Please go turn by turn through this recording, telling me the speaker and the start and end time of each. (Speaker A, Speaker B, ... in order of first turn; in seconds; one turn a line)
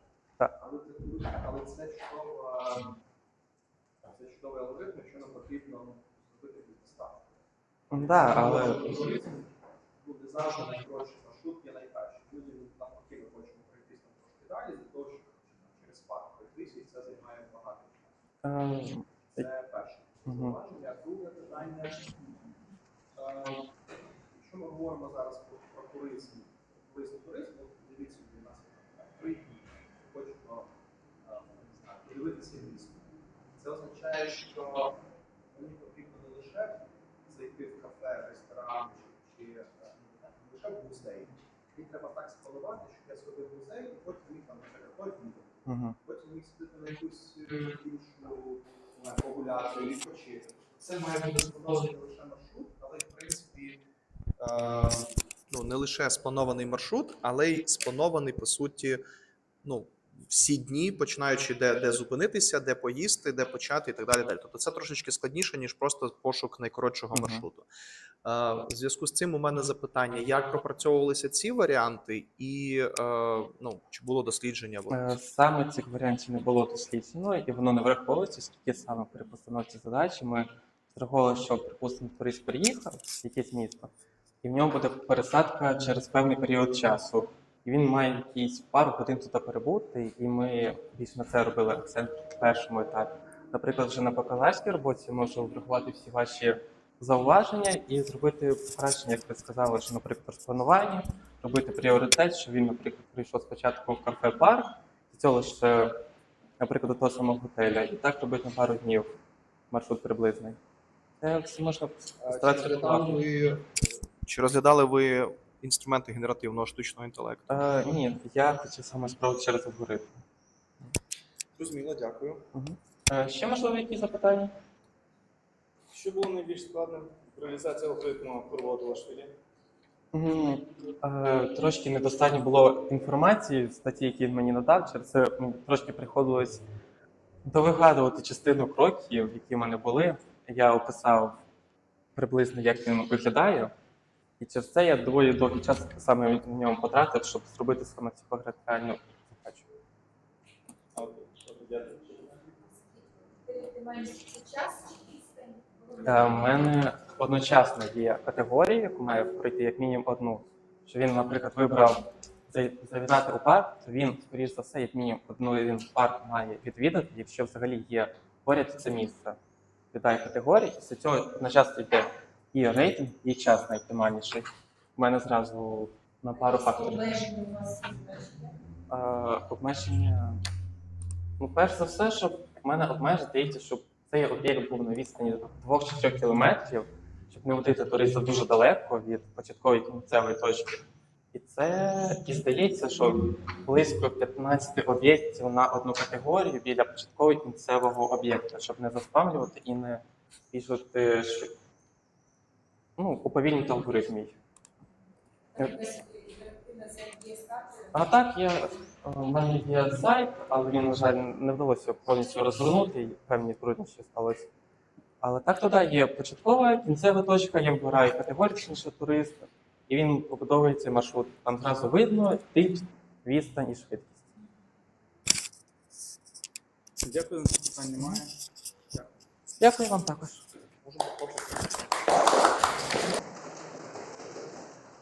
Speaker A: 0.6-2.9
Speaker A: 4.1-7.4
Speaker B: 7.9-8.9
Speaker A: 8.0-18.1
Speaker B: 18.4-19.4
Speaker A: 19.3-22.1
Speaker B: 20.2-20.6
Speaker A: 23.1-23.7
Speaker A: 24.3-30.7
Speaker A: 31.2-35.0
Speaker A: 35.5-53.8
Speaker B: 45.6-46.0
Speaker A: 54.4-59.0
Speaker A: 59.6-67.7
Speaker B: 67.1-67.5
Speaker A: 68.2-75.1
Speaker B: 74.9-105.9
Speaker B: 106.6-109.1
Speaker B: 109.7-110.6
Speaker B: 111.2-113.2
Speaker A: 112.2-117.5
Speaker B: 117.5-120.2
Speaker A: 121.6-122.4
Speaker B: 122.5-124.5
Speaker C: 125.9-129.3
Speaker B: 130.1-136.6
Speaker B: 137.4-141.4
Speaker B: 142.2-143.7
Speaker B: 144.4-149.7
Speaker C: 150.9-152.4
Speaker D: 152.7-156.0
Speaker B: 156.0-169.4
Speaker B: 169.9-177.3
Speaker D: 177.2-178.5
Speaker B: 178.9-180.4
Speaker B: 181.4-190.8
Speaker B: 191.3-201.5
Speaker B: 203.0-204.3
Speaker B: 205.6-206.0
Speaker D: 205.9-207.9
Speaker B: 207.9-214.5
Speaker B: 215.2-224.2
Speaker C: 227.0-228.3
Speaker B: 229.6-230.4
Speaker A: 230.8-231.4